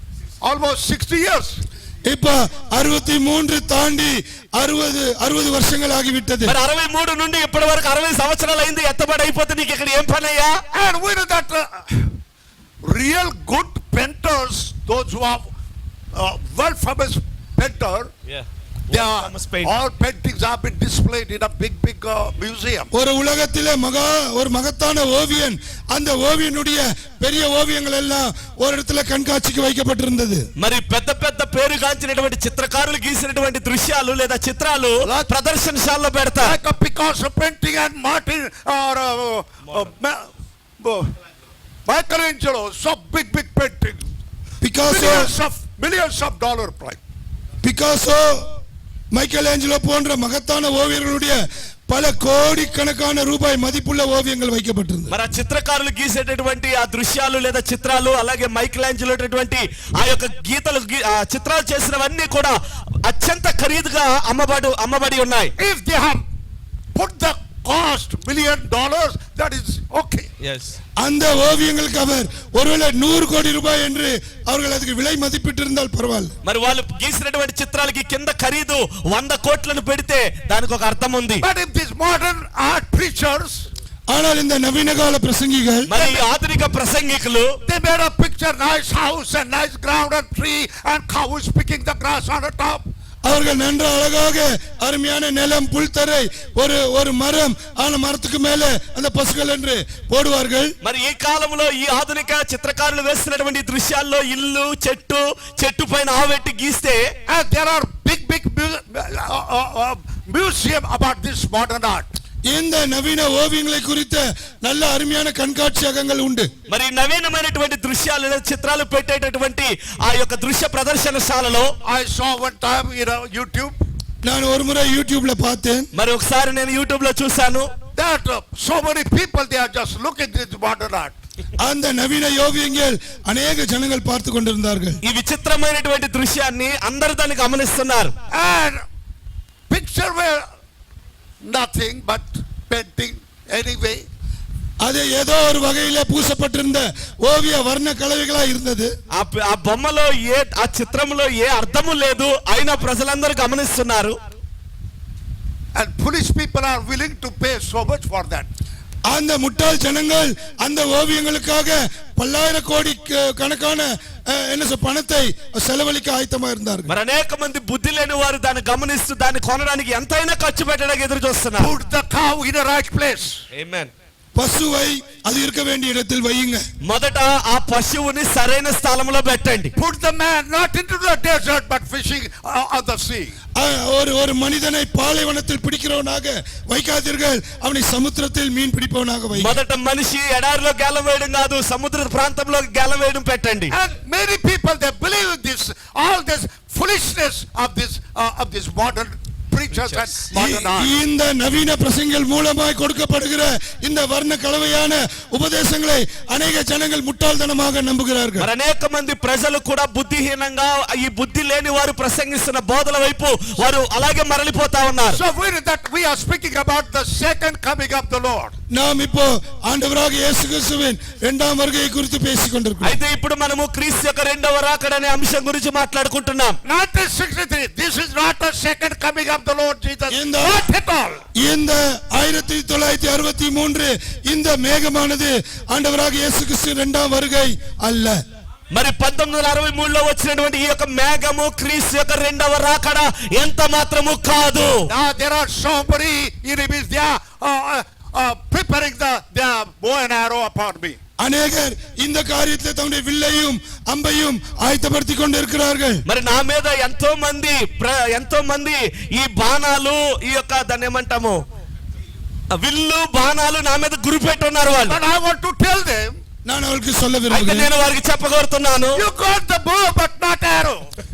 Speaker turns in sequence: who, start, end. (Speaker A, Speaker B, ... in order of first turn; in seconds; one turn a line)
Speaker A: 0.4-1.6
Speaker B: 2.1-6.5
Speaker C: 6.5-10.6
Speaker A: 10.7-12.1
Speaker A: 12.8-15.5
Speaker A: 16.1-18.1
Speaker C: 18.3-19.7
Speaker A: 18.9-22.9
Speaker B: 22.9-30.4
Speaker C: 30.6-36.6
Speaker A: 35.0-35.3
Speaker A: 36.4-41.1
Speaker A: 41.9-44.0
Speaker B: 44.6-45.3
Speaker A: 44.8-47.0
Speaker B: 47.6-48.5
Speaker B: 49.1-55.1
Speaker C: 55.1-65.5
Speaker A: 65.6-66.2
Speaker A: 66.9-70.3
Speaker C: 70.4-70.8
Speaker B: 71.0-76.3
Speaker C: 76.4-81.4
Speaker A: 81.4-83.7
Speaker B: 84.1-85.9
Speaker C: 85.9-87.5
Speaker A: 85.9-86.2
Speaker A: 87.7-92.8
Speaker B: 93.2-100.7
Speaker C: 100.8-107.0
Speaker A: 107.3-112.1
Speaker B: 112.5-116.5
Speaker C: 116.7-121.7
Speaker A: 121.8-123.8
Speaker B: 124.2-125.9
Speaker C: 125.9-127.7
Speaker A: 128.0-131.1
Speaker B: 131.6-135.0
Speaker C: 135.0-138.1
Speaker A: 138.3-138.8
Speaker A: 139.7-140.4
Speaker A: 141.4-144.0
Speaker B: 144.8-148.9
Speaker C: 149.1-154.2
Speaker A: 155.7-158.5
Speaker B: 159.1-166.9
Speaker C: 166.9-171.7
Speaker A: 171.6-173.4
Speaker C: 173.5-173.9
Speaker B: 174.3-176.6
Speaker C: 176.8-179.7
Speaker A: 179.8-183.3
Speaker B: 183.6-189.6
Speaker C: 189.3-193.7
Speaker A: 193.7-201.0
Speaker C: 199.8-200.1
Speaker B: 200.3-208.5
Speaker C: 208.4-215.2
Speaker A: 215.1-218.5
Speaker B: 218.7-223.0
Speaker C: 222.8-226.6
Speaker A: 226.6-231.2
Speaker B: 230.1-230.6
Speaker B: 231.4-238.2
Speaker C: 238.7-244.8
Speaker A: 244.9-251.0
Speaker B: 251.2-256.0
Speaker C: 256.1-261.4
Speaker C: 262.5-265.0
Speaker A: 264.8-266.1
Speaker B: 266.4-267.7
Speaker C: 267.3-269.0
Speaker A: 268.9-270.9